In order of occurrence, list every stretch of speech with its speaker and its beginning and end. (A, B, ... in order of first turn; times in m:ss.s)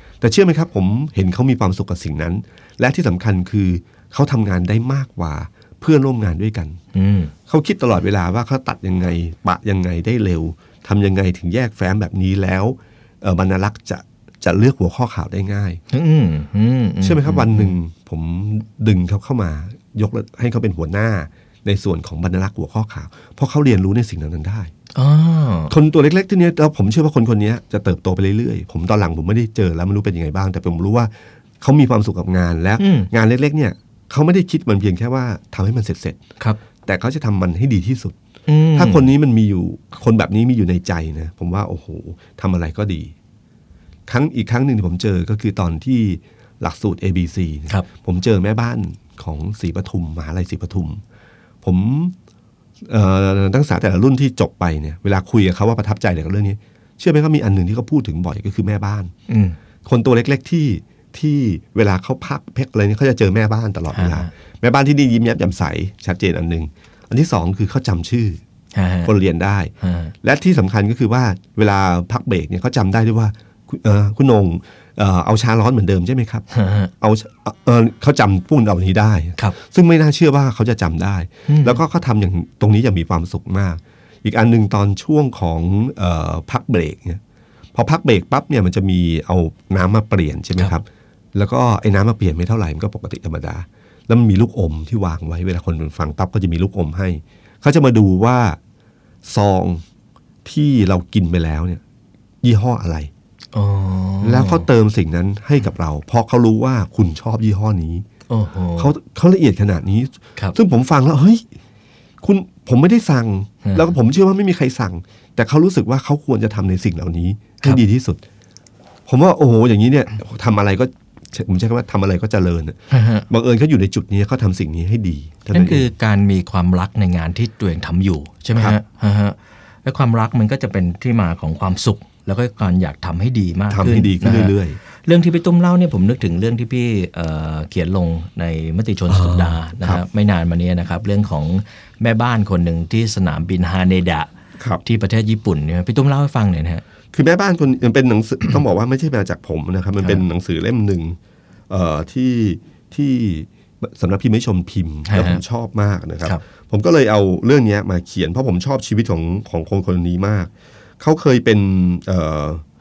0:00.2-0:06.8 A
0:06.9-0:07.3 B
0:07.5-0:15.8 A
0:15.9-0:17.7 B
0:17.0-0:24.7 A
0:24.9-0:25.7 B
0:25.7-0:36.2 A
0:32.8-0:33.1 B
0:36.8-0:38.2 A
0:38.5-0:39.1 B
0:38.7-0:43.1 A
0:44.1-0:51.0 A
0:51.6-0:52.1 A
0:52.8-0:59.1 A
0:59.3-0:59.6 B
0:59.8-1:08.4 A
1:03.9-1:04.3 B
1:08.7-1:09.1 B
1:09.0-1:16.4 A
1:09.8-1:10.1 B
1:16.5-1:16.9 B
1:17.0-1:27.2 A
1:21.5-1:21.8 B
1:27.7-1:38.6 A
1:39.2-1:39.8 A
1:40.4-1:41.8 A
1:42.4-1:43.1 A
1:43.5-1:44.7 B
1:44.2-1:48.0 A
1:48.3-1:48.9 B
1:48.8-1:51.4 A
1:52.2-1:58.2 A
1:59.0-2:05.9 A
2:02.9-2:03.2 B
2:05.5-2:24.3 B
2:13.7-2:14.8 A
2:19.1-2:20.0 A
2:24.8-2:26.8 B
2:27.1-2:31.2 A
2:31.7-2:42.6 A
2:35.1-2:35.4 B